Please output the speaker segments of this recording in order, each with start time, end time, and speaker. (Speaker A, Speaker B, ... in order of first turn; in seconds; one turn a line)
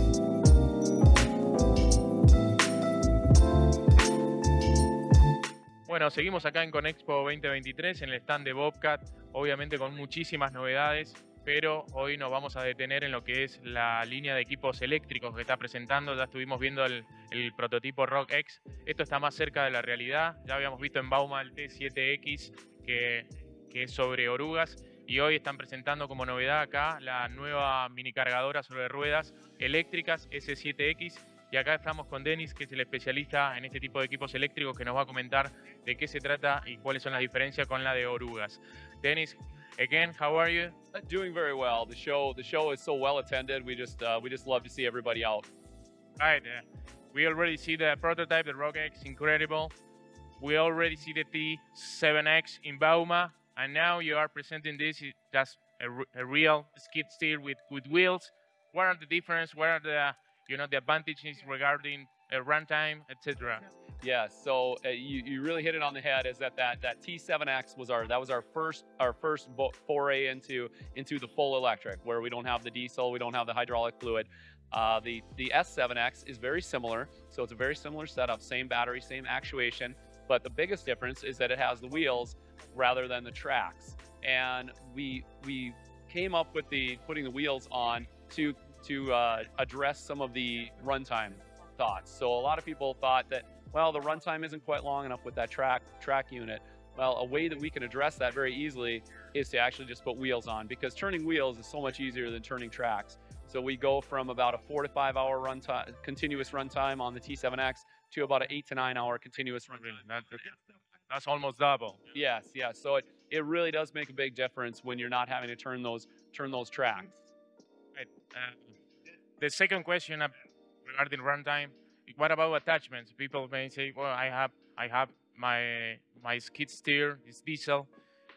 Speaker A: 5.8-40.8
Speaker B: 40.9-45.5
Speaker A: 46.2-49.7
Speaker A: 50.4-63.7
Speaker B: 64.0-110.0
Speaker A: 109.7-112.2
Speaker B: 112.1-117.3
Speaker A: 118.0-118.7
Speaker A: 119.4-127.9